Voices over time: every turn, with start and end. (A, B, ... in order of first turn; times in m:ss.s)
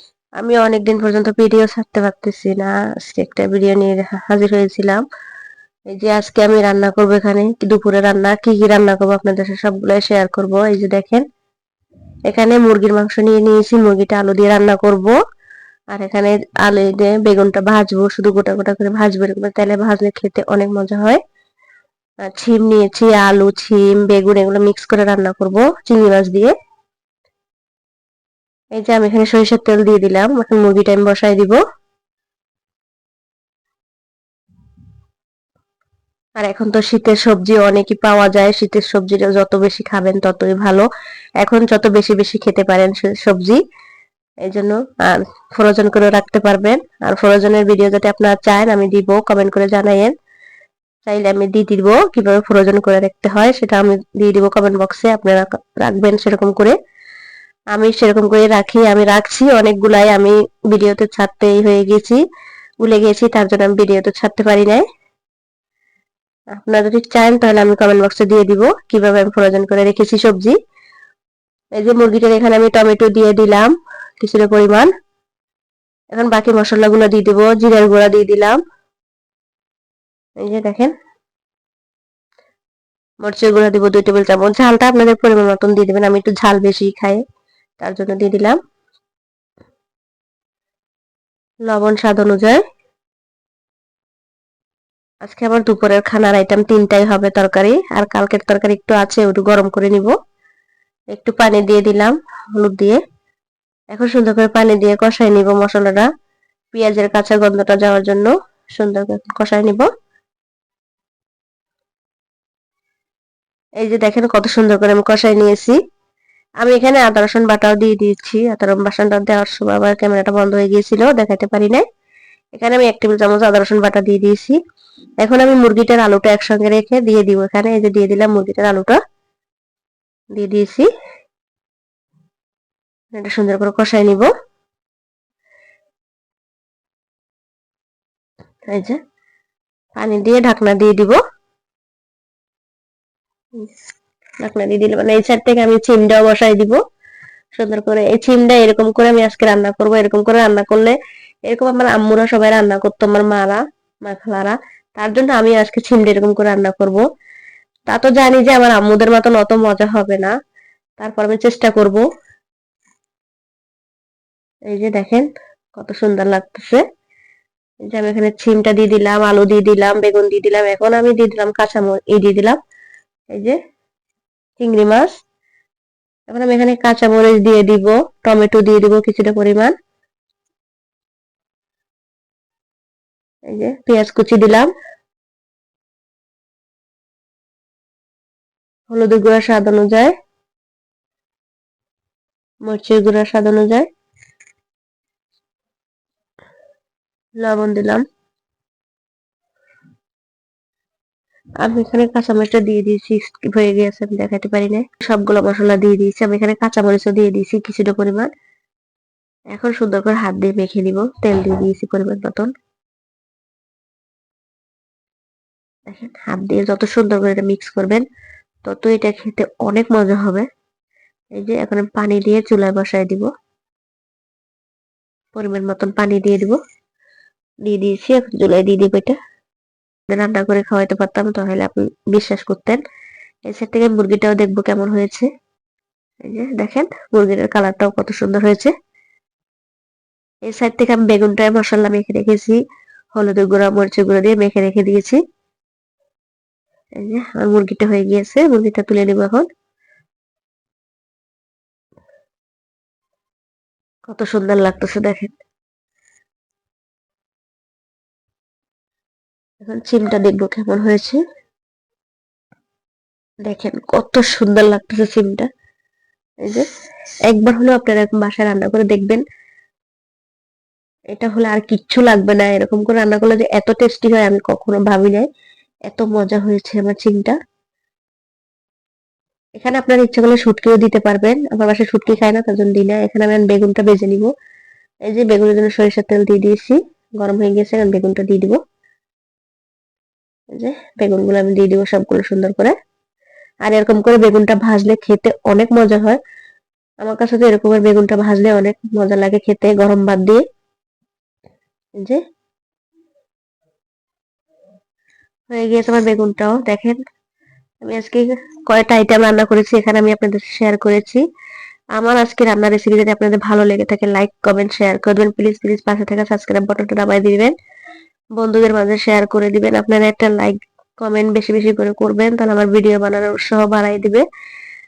0:00.4-0:05.0 A
0:05.9-0:11.2 A
0:12.3-0:15.2 A
0:15.9-0:21.2 A
0:22.2-0:26.6 A
0:28.8-0:31.6 A
0:36.4-0:40.9 A
0:41.4-0:43.6 A
0:44.5-0:50.1 A
0:51.1-0:56.8 A
0:57.7-1:02.2 A
1:02.8-1:04.8 A
1:06.6-1:10.6 A
1:11.8-1:14.9 A
1:16.1-1:18.6 A
1:20.4-1:20.9 A
1:23.2-1:27.2 A
1:27.8-1:28.6 A
1:31.7-1:32.6 A
1:35.2-1:40.2 A
1:41.1-1:43.0 A
1:43.9-1:46.1 A
1:46.7-1:49.9 A
1:53.8-1:55.8 A
1:56.6-2:01.8 A
2:02.6-2:04.6 A
2:05.2-2:09.0 A
2:10.4-2:10.9 A
2:13.1-2:14.3 A
2:18.7-2:19.0 A
2:20.0-2:21.2 A
2:24.4-2:26.8 A
2:27.6-2:37.0 A
2:37.9-2:40.3 A
2:41.0-2:42.0 A
2:44.7-2:46.8 A
2:47.9-2:52.6 A
2:53.3-2:53.6 A
2:54.6-2:55.2 A
2:56.3-2:59.7 A
3:03.5-3:04.7 A
3:08.9-3:10.1 A
3:12.7-3:13.9 A
3:17.4-3:18.0 A
3:21.6-3:28.3 A
3:29.5-3:32.5 A
3:35.9-3:38.0 A
3:38.6-3:40.5 A
3:41.4-3:43.3 A
3:45.4-3:46.6 A
3:47.6-3:49.2 A
3:50.1-3:52.8 A
3:53.5-3:55.3 A
3:56.2-3:58.7 A
4:00.5-4:02.6 A
4:03.2-4:05.2 A
4:07.0-4:09.5 A
4:14.1-4:15.4 A
4:19.6-4:21.2 A
4:23.4-4:25.5 A
4:27.3-4:29.2 A
4:31.1-4:35.3 A
4:35.9-4:37.4 A
4:39.6-4:44.3 A
4:45.1-4:48.6 A
4:50.5-4:52.8 A
4:53.7-4:56.2 A
4:57.0-5:00.4 A
5:05.5-5:07.0 A
5:07.8-5:11.2 A
5:12.0-5:17.6 A
5:18.4-5:24.2 A